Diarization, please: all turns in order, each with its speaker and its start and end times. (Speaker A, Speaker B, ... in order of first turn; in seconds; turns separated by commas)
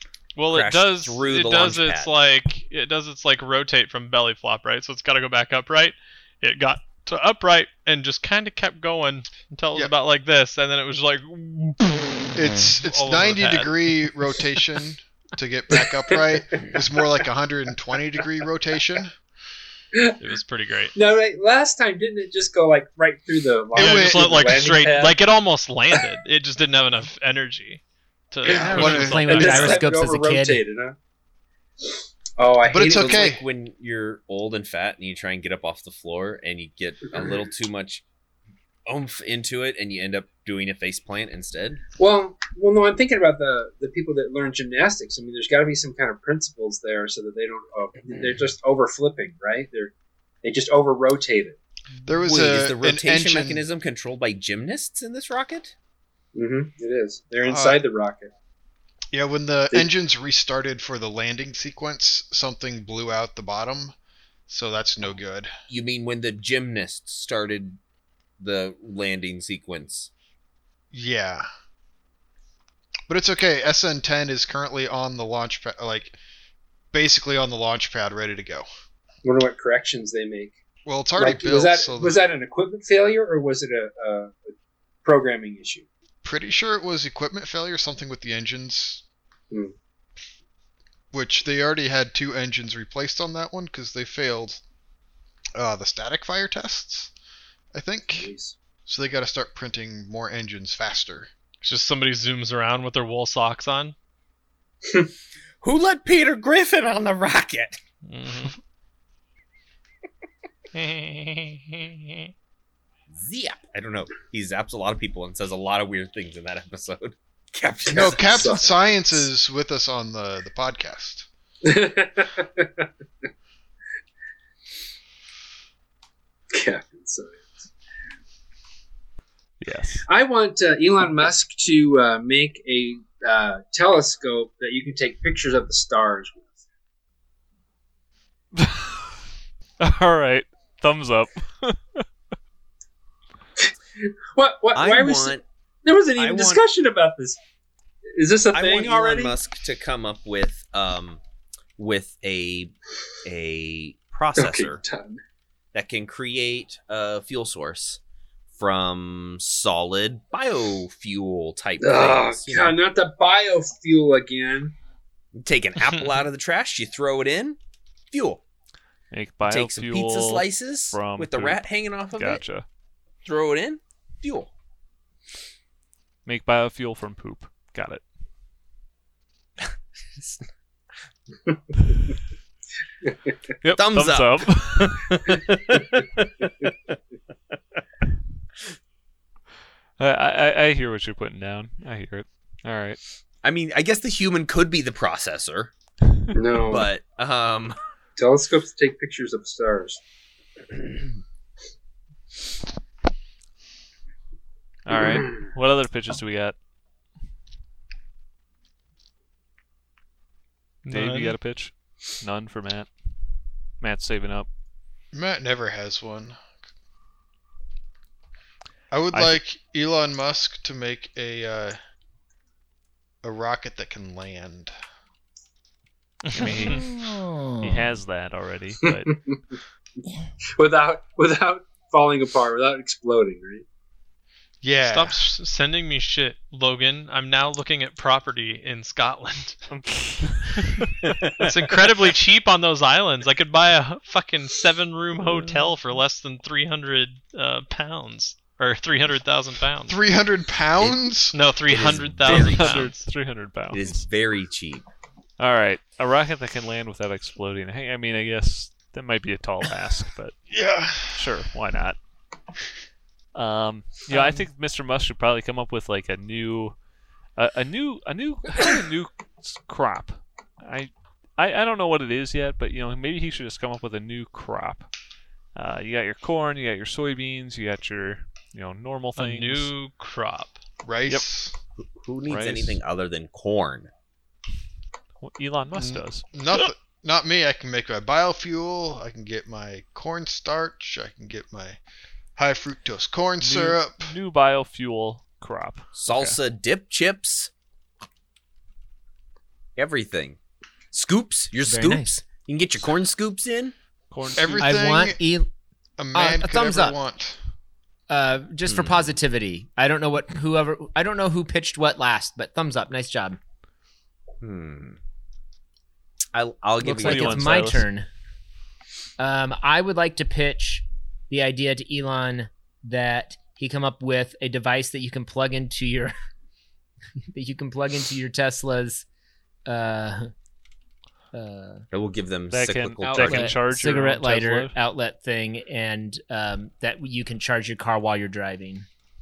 Speaker A: 0.3-13.8, Speaker B: 0.5-2.1, Speaker C: 12.3-19.1, Speaker D: 15.8-16.8, Speaker A: 20.2-20.9, Speaker D: 20.9-25.1, Speaker A: 23.7-29.8, Speaker C: 23.7-24.4, Speaker D: 28.4-30.9, Speaker C: 28.4-29.5, Speaker E: 28.7-30.6, Speaker D: 32.4-33.3, Speaker C: 32.6-33.4, Speaker B: 32.8-38.0, Speaker B: 38.9-41.8, Speaker D: 42.0-51.6, Speaker C: 52.0-53.6, Speaker B: 52.2-55.7, Speaker D: 56.3-58.3, Speaker C: 57.4-57.8, Speaker C: 59.1-63.9, Speaker C: 64.5-65.5, Speaker B: 65.7-67.8, Speaker B: 68.4-70.1, Speaker C: 70.9-71.5, Speaker C: 73.1-76.2, Speaker C: 76.9-78.7, Speaker D: 79.2-80.6, Speaker C: 80.8-82.2, Speaker D: 81.2-84.5, Speaker D: 85.0-85.8, Speaker C: 86.2-89.0, Speaker C: 91.1-94.6, Speaker C: 95.5-97.1, Speaker C: 97.7-98.3, Speaker D: 98.1-98.5, Speaker C: 98.8-101.3, Speaker A: 101.6-103.9, Speaker B: 105.6-107.8, Speaker A: 108.0-108.5, Speaker A: 110.7-112.3, Speaker B: 113.1-118.6, Speaker C: 117.9-121.3, Speaker D: 117.9-119.2, Speaker D: 121.6-122.9, Speaker D: 126.5-127.5, Speaker F: 129.6-130.1, Speaker D: 130.1-136.5, Speaker F: 138.6-139.1, Speaker F: 139.8-142.0, Speaker D: 144.0-147.4, Speaker B: 144.7-145.4, Speaker B: 146.2-146.6, Speaker D: 148.1-149.4, Speaker B: 148.5-151.2, Speaker B: 151.8-152.7, Speaker B: 153.2-154.8, Speaker D: 154.3-155.2, Speaker B: 155.7-158.0, Speaker B: 158.5-162.8, Speaker D: 161.8-164.7, Speaker B: 165.4-167.6, Speaker B: 168.1-168.4, Speaker F: 169.1-172.7, Speaker B: 169.4-172.4, Speaker B: 173.2-174.5, Speaker F: 176.2-178.0, Speaker B: 179.6-180.4, Speaker F: 183.6-185.3, Speaker B: 183.7-186.2, Speaker F: 190.0-193.0, Speaker B: 193.4-195.7, Speaker D: 196.3-196.9, Speaker B: 196.6-197.8, Speaker D: 198.2-200.0, Speaker F: 204.8-206.6, Speaker A: 210.8-211.4, Speaker F: 210.9-212.9, Speaker F: 213.8-214.5, Speaker C: 215.1-216.4, Speaker C: 218.9-221.8, Speaker F: 219.1-219.4, Speaker C: 223.2-224.7, Speaker A: 226.2-226.8, Speaker F: 226.3-226.9, Speaker E: 226.8-227.7, Speaker F: 227.6-229.1, Speaker D: 228.9-229.4, Speaker D: 230.6-233.6, Speaker C: 234.6-235.2, Speaker A: 234.8-239.7, Speaker F: 239.7-241.1, Speaker A: 241.4-250.0, Speaker F: 245.3-245.6, Speaker C: 249.9-251.4, Speaker A: 251.3-253.1, Speaker B: 251.7-252.9, Speaker F: 252.2-254.0, Speaker B: 253.7-254.8, Speaker F: 255.4-260.3, Speaker C: 260.5-261.3, Speaker F: 261.1-262.0, Speaker F: 263.3-266.8, Speaker F: 267.4-274.9, Speaker F: 275.6-279.7, Speaker A: 279.1-280.6, Speaker C: 280.8-281.5, Speaker B: 281.8-283.9, Speaker F: 282.3-282.8, Speaker F: 285.2-286.3, Speaker C: 285.7-291.8, Speaker C: 292.4-294.1, Speaker F: 293.4-296.4, Speaker B: 295.9-297.5, Speaker B: 299.8-300.4, Speaker B: 300.9-303.7, Speaker E: 301.6-302.2, Speaker F: 304.1-304.8, Speaker C: 304.3-305.2, Speaker E: 304.6-305.5, Speaker C: 306.0-307.4, Speaker E: 306.1-307.0, Speaker E: 308.1-313.4, Speaker B: 308.6-309.1, Speaker B: 314.4-315.0, Speaker B: 316.3-317.6, Speaker E: 316.8-318.1, Speaker F: 316.9-317.9, Speaker E: 319.2-326.1, Speaker E: 327.3-329.0, Speaker E: 329.6-330.3, Speaker E: 331.3-331.9, Speaker B: 331.9-333.6, Speaker F: 332.5-334.7, Speaker E: 333.0-338.9